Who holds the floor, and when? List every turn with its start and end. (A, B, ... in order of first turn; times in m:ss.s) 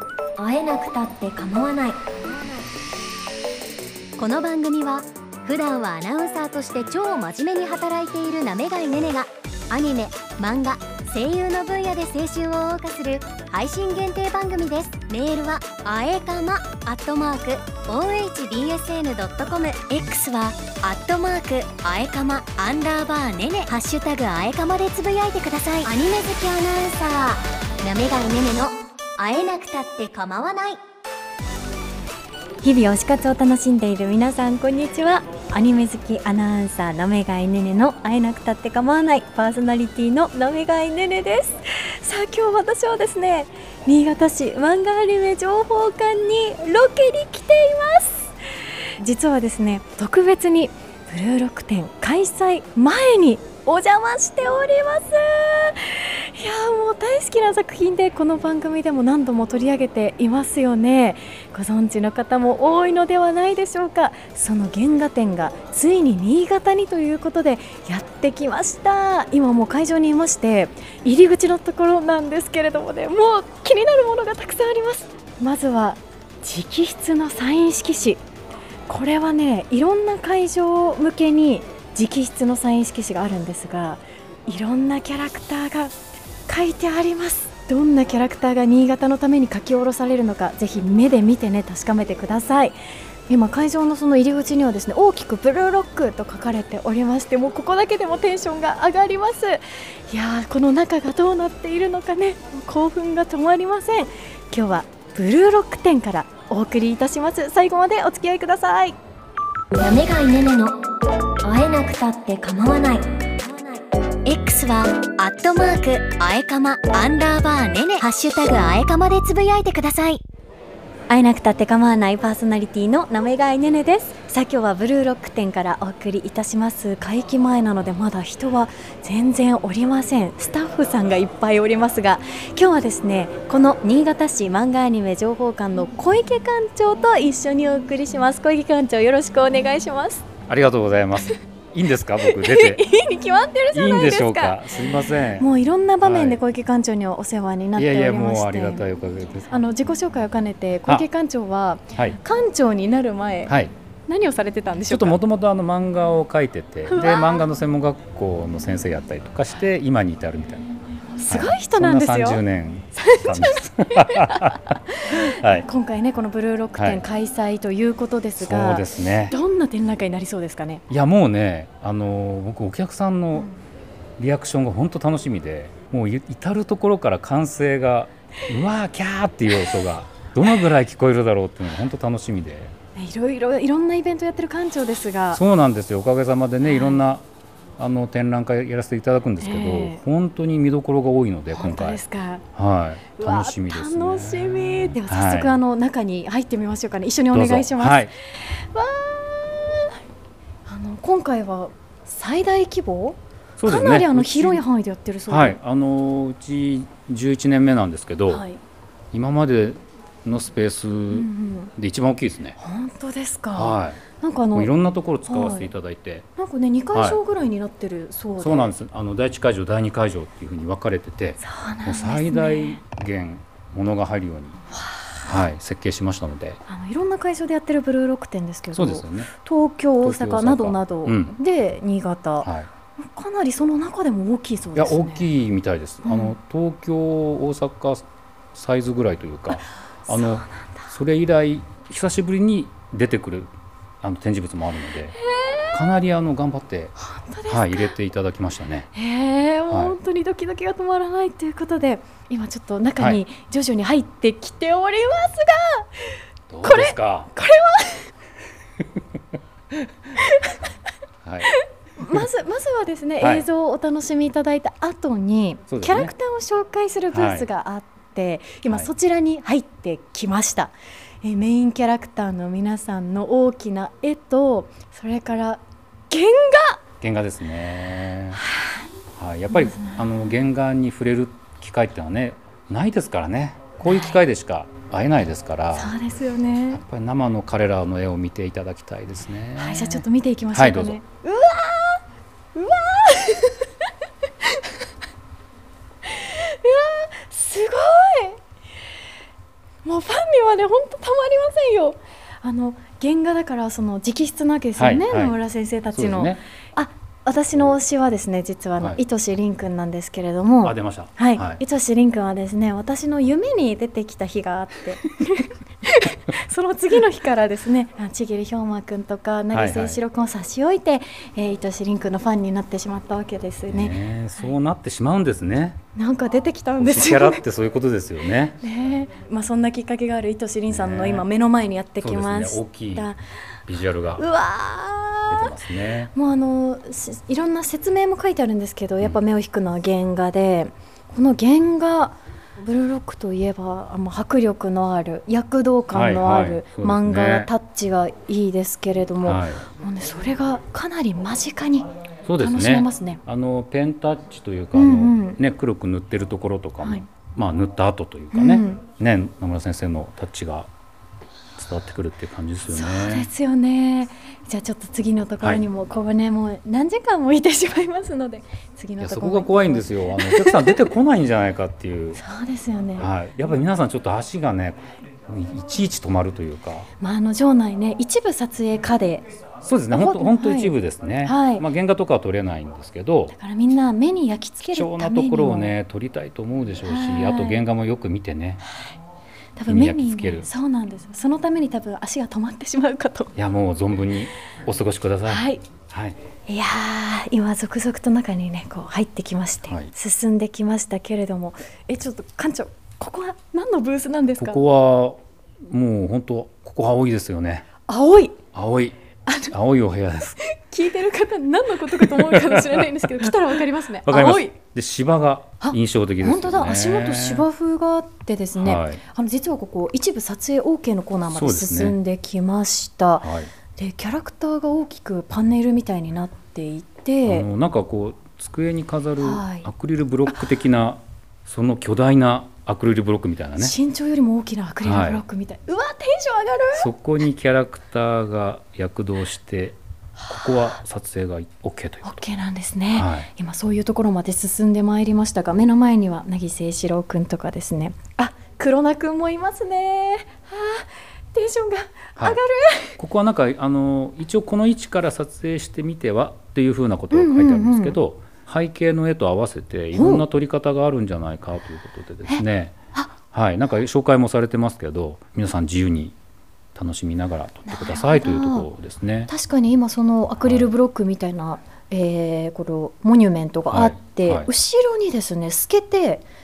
0:00.4-0:02.7 A
0:04.2-0:30.8 A
0:32.6-0:48.3 B
0:49.0-1:18.2 B
1:18.9-1:26.0 B
1:26.5-1:32.8 B
1:33.3-1:49.0 B
1:49.8-1:50.8 A
1:51.4-2:00.2 A
2:01.1-2:20.3 B
2:20.5-2:22.8 C
2:22.2-2:24.6 B
2:23.7-2:25.5 C
2:25.3-2:28.8 B
2:26.0-2:26.4 C
2:27.8-2:29.5 C
2:29.5-2:33.5 B
2:33.5-2:33.7 C
2:34.1-2:35.2 B
2:34.9-2:40.7 C
2:36.9-2:37.4 B
2:41.2-2:42.4 B
2:41.3-2:45.6 C
2:42.9-2:50.8 B
2:46.8-2:47.0 C
2:48.4-2:49.4 C
2:50.9-2:53.5 C
2:54.2-3:02.7 C
3:03.0-3:05.4 B
3:05.3-3:07.2 C
3:06.6-3:07.0 B
3:07.8-3:12.0 C
3:09.4-3:10.0 B
3:11.5-3:12.4 B
3:12.5-3:15.6 C
3:13.2-3:20.0 B
3:17.3-3:18.1 C
3:20.6-3:25.6 B
3:23.6-3:24.6 C
3:25.3-3:28.4 C
3:28.3-3:28.6 B
3:29.1-3:32.6 C
3:31.1-3:31.7 B
3:32.6-3:34.7 B
3:33.5-3:34.0 C
3:34.5-3:36.3 C
3:35.2-3:35.7 B
3:36.4-3:38.7 B
3:38.4-3:44.6 C
3:41.4-3:42.8 B
3:44.8-3:45.3 B
3:45.2-3:46.6 C
3:46.7-3:55.2 B
3:48.7-3:49.3 C
3:50.0-3:51.3 C
3:52.4-3:52.7 C
3:54.8-4:05.2 C
3:56.0-3:56.3 B
3:59.5-4:00.9 B
4:05.2-4:05.7 B
4:05.7-4:06.9 C
4:07.0-4:07.9 B
4:07.5-4:08.9 C
4:08.9-4:18.1 B
4:09.7-4:10.0 C
4:16.5-4:17.3 C
4:20.2-4:20.6 B
4:21.2-4:21.5 C
4:21.5-4:36.8 B
4:23.2-4:23.4 C
4:25.7-4:26.1 C
4:27.1-4:27.5 C
4:37.0-4:38.4 C
4:38.4-4:38.8 B
4:39.1-4:46.0 C
4:39.5-4:40.0 B
4:43.9-4:44.2 B
4:45.7-4:46.8 B
4:46.7-4:51.0 C
4:49.6-4:52.0 B
4:52.5-4:53.7 B
4:54.4-4:54.7 B
4:56.0-4:58.4 B
4:59.8-5:23.9 B
5:04.8-5:05.4 C
5:05.9-5:06.4 C
5:10.6-5:11.6 C
5:19.5-5:20.0 C
5:23.7-5:25.8 C
5:25.9-5:27.4 B
5:26.8-5:28.6 C
5:28.6-5:33.2 B
5:30.7-5:31.3 C
5:32.0-5:33.1 C
5:33.7-5:34.2 C
5:34.2-5:35.5 B
5:35.3-5:36.1 C
5:36.1-5:51.9 B
5:45.9-5:47.5 C
5:49.2-5:49.6 C
5:52.2-6:00.7 C
5:52.4-5:53.2 B
5:54.7-5:55.4 B
5:56.8-5:57.1 B
5:58.3-5:58.8 B
6:01.6-6:03.3 C
6:02.7-6:10.8 B
6:09.0-6:12.2 C
6:12.2-6:13.1 B
6:13.0-6:16.9 C
6:17.0-6:19.2 B
6:19.6-6:23.3 C
6:19.9-6:21.6 B
6:23.3-6:25.7 B
6:24.6-6:28.6 C
6:26.8-6:27.6 B
6:29.6-6:33.3 B
6:29.7-6:30.5 C
6:33.4-6:36.2 C
6:35.2-6:35.6 B
6:36.5-6:44.6 B
6:44.4-6:47.7 C
6:47.9-6:48.4 B
6:48.5-6:49.0 C
6:49.2-6:49.5 B
6:49.5-6:50.4 C
6:50.4-6:54.6 B
6:51.9-6:53.3 C
6:54.0-6:57.4 C
6:55.6-7:07.5 B
6:58.6-6:59.0 C
7:01.3-7:02.0 C
7:03.2-7:03.5 C
7:07.2-7:13.8 C
7:09.2-7:09.7 B
7:13.6-7:16.9 B
7:14.8-7:15.2 C
7:16.7-7:19.8 C
7:20.2-7:20.8 B
7:20.3-7:22.1 C
7:22.0-7:33.0 B
7:22.9-7:23.3 C
7:33.0-7:42.8 C
7:37.1-7:38.0 B
7:39.9-7:40.2 B
7:42.3-7:43.1 B
7:43.3-7:46.1 C
7:46.7-7:49.3 C
7:47.7-7:48.7 B
7:49.3-7:56.2 B
7:53.7-7:54.5 C